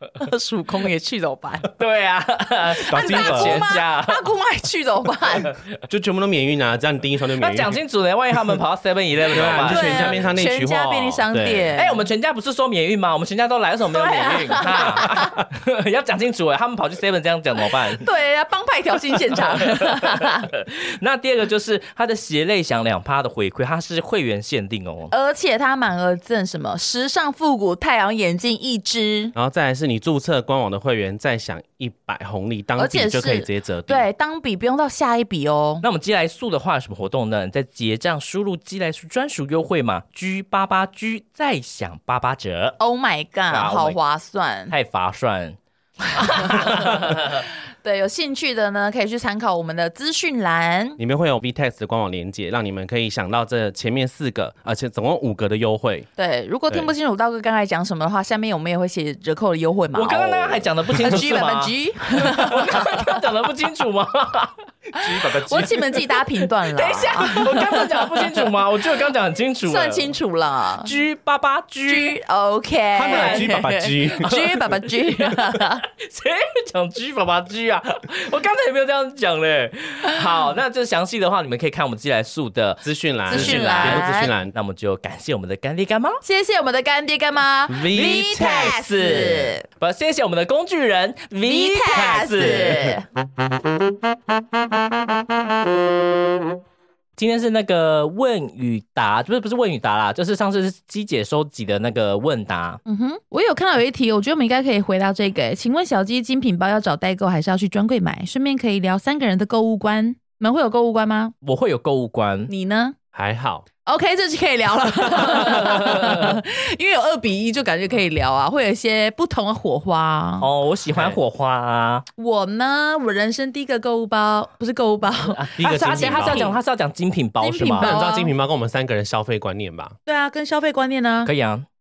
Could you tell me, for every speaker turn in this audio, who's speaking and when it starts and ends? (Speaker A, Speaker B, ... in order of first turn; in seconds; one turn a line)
Speaker A: 0.2-1.7
Speaker B: 1.8-4.3
Speaker A: 2.8-5.6
Speaker C: 2.9-3.7
Speaker C: 5.9-7.8
Speaker B: 7.4-10.3
Speaker C: 9.3-11.7
Speaker A: 9.6-12.1
Speaker B: 11.8-18.1
Speaker A: 13.9-15.3
Speaker A: 17.6-20.5
Speaker B: 19.3-25.1
Speaker A: 25.1-29.4
Speaker C: 29.4-34.1
Speaker A: 32.8-35.9
Speaker B: 35.8-42.8
Speaker A: 42.8-44.7
Speaker B: 43.5-44.0
Speaker B: 44.7-45.6
Speaker A: 46.1-51.0
Speaker B: 46.1-47.4
Speaker C: 51.0-56.1
Speaker A: 56.2-63.2
Speaker B: 60.0-70.1
Speaker A: 64.9-67.9
Speaker A: 69.7-70.9
Speaker B: 70.8-72.2
Speaker A: 71.9-75.8
Speaker C: 72.9-74.7
Speaker B: 73.1-73.5
Speaker B: 75.3-86.2
Speaker C: 82.8-84.5
Speaker A: 83.3-84.3
Speaker A: 86.2-89.7
Speaker C: 87.7-88.7
Speaker B: 87.9-93.0
Speaker A: 91.4-93.1
Speaker B: 97.2-102.8
Speaker A: 102.9-111.3
Speaker B: 111.4-112.5
Speaker A: 112.5-113.0
Speaker C: 113.1-113.7
Speaker A: 113.8-120.5
Speaker B: 115.2-116.4
Speaker B: 120.4-122.1
Speaker C: 120.9-121.2
Speaker A: 122.2-126.6
Speaker B: 125.3-128.0
Speaker C: 125.6-126.5
Speaker A: 127.4-128.3
Speaker C: 127.8-130.0
Speaker A: 130.1-131.3
Speaker B: 131.2-131.7